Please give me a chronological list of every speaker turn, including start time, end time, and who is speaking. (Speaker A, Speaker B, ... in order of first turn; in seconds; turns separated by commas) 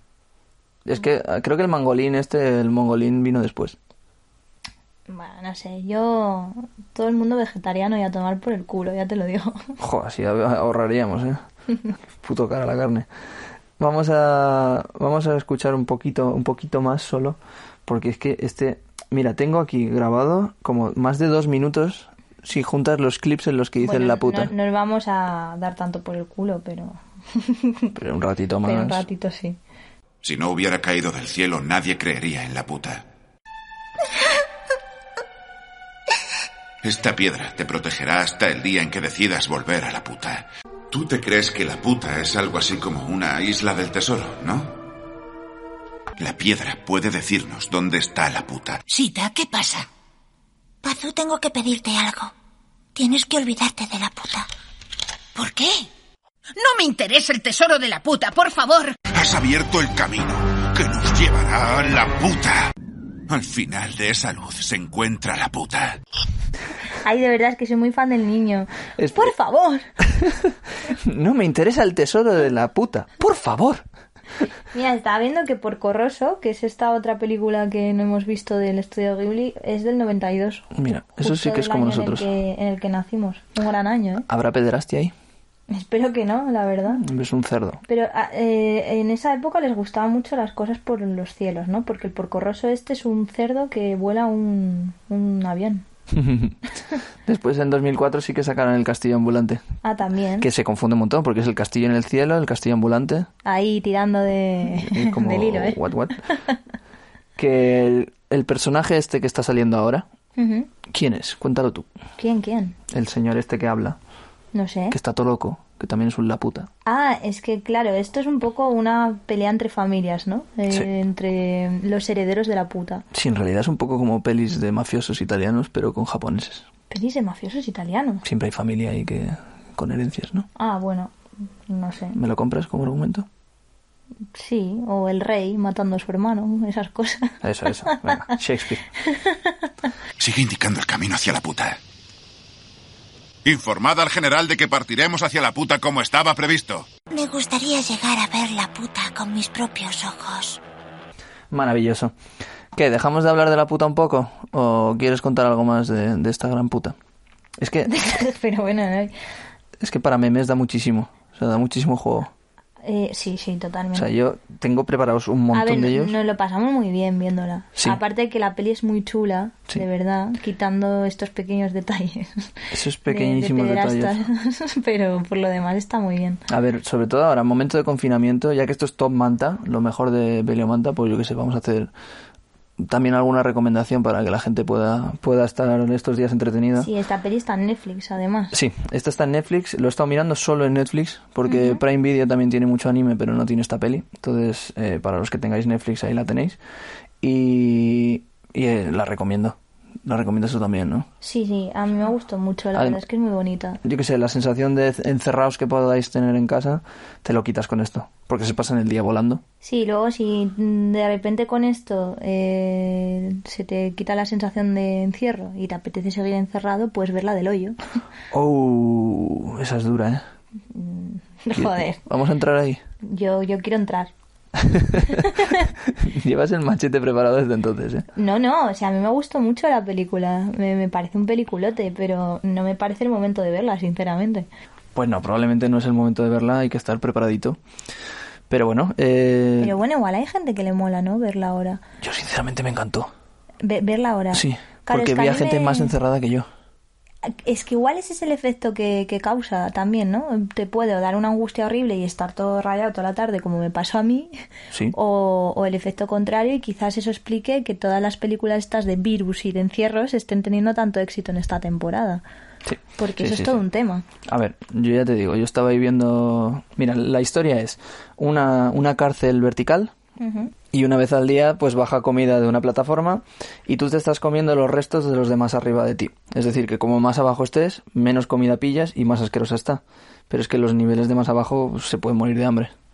Speaker A: 0.8-3.8, Speaker B: 5.1-9.7, Speaker A: 9.8-11.4, Speaker A: 12.2-13.1, Speaker A: 13.8-24.5, Speaker B: 23.8-27.9, Speaker A: 27.9-29.0, Speaker B: 28.6-29.6, Speaker C: 30.2-33.0, Speaker C: 36.8-44.8, Speaker C: 46.2-48.8, Speaker D: 48.9-49.9, Speaker E: 50.8-52.3, Speaker E: 52.9-54.5, Speaker E: 55.3-55.9, Speaker D: 56.5-59.0, Speaker C: 59.1-62.7, Speaker C: 63.3-66.0, Speaker B: 67.0-69.9, Speaker A: 69.0-69.3, Speaker A: 70.0-73.8, Speaker B: 74.7-84.2, Speaker A: 80.7-82.2, Speaker A: 84.3-85.1, Speaker B: 85.7-87.0, Speaker A: 87.0-87.8, Speaker B: 87.9-95.8, Speaker A: 96.1-96.6, Speaker A: 97.2-99.6, Speaker B: 99.8-100.5, Speaker A: 100.4-103.3, Speaker B: 103.4-106.6, Speaker A: 104.6-106.2, Speaker A: 107.3-110.0, Speaker B: 110.4-110.7, Speaker A: 110.9-111.9, Speaker B: 112.2-112.8, Speaker A: 112.9-114.0, Speaker B: 114.5-115.0, Speaker A: 114.9-116.7, Speaker B: 116.8-123.0, Speaker A: 123.1-126.7, Speaker B: 126.9-128.2, Speaker A: 128.2-130.5, Speaker B: 130.6-131.1, Speaker B: 131.7-132.2, Speaker A: 132.1-133.3, Speaker B: 134.3-138.3, Speaker A: 137.4-138.8, Speaker B: 139.0-139.7, Speaker C: 140.2-141.8, Speaker C: 143.4-146.9, Speaker E: 147.1-150.6, Speaker A: 151.5-152.1, Speaker A: 152.7-156.9, Speaker A: 157.6-157.9, Speaker B: 157.8-159.1, Speaker A: 159.8-162.3, Speaker B: 162.8-164.1, Speaker A: 163.9-166.2, Speaker B: 165.5-176.4, Speaker A: 172.7-174.2, Speaker A: 176.5-181.9, Speaker A: 182.8-186.9, Speaker B: 186.8-188.5, Speaker A: 188.5-196.6, Speaker B: 191.4-191.8, Speaker A: 197.2-201.1, Speaker B: 201.2-203.8, Speaker A: 202.7-203.0, Speaker A: 203.8-209.4, Speaker B: 209.6-217.8, Speaker A: 218.3-220.2, Speaker B: 220.7-222.0, Speaker A: 221.5-222.8, Speaker B: 223.0-224.1, Speaker A: 224.6-228.1, Speaker B: 225.1-225.7, Speaker B: 228.1-234.5, Speaker A: 234.9-237.6, Speaker A: 238.5-239.8, Speaker B: 239.6-241.8, Speaker A: 242.0-243.1, Speaker B: 243.6-245.9, Speaker A: 244.3-246.5, Speaker B: 247.2-254.3, Speaker B: 254.9-262.2, Speaker A: 262.6-263.6, Speaker B: 263.0-264.0, Speaker A: 264.2-269.9, Speaker B: 270.2-270.5, Speaker A: 270.7-282.7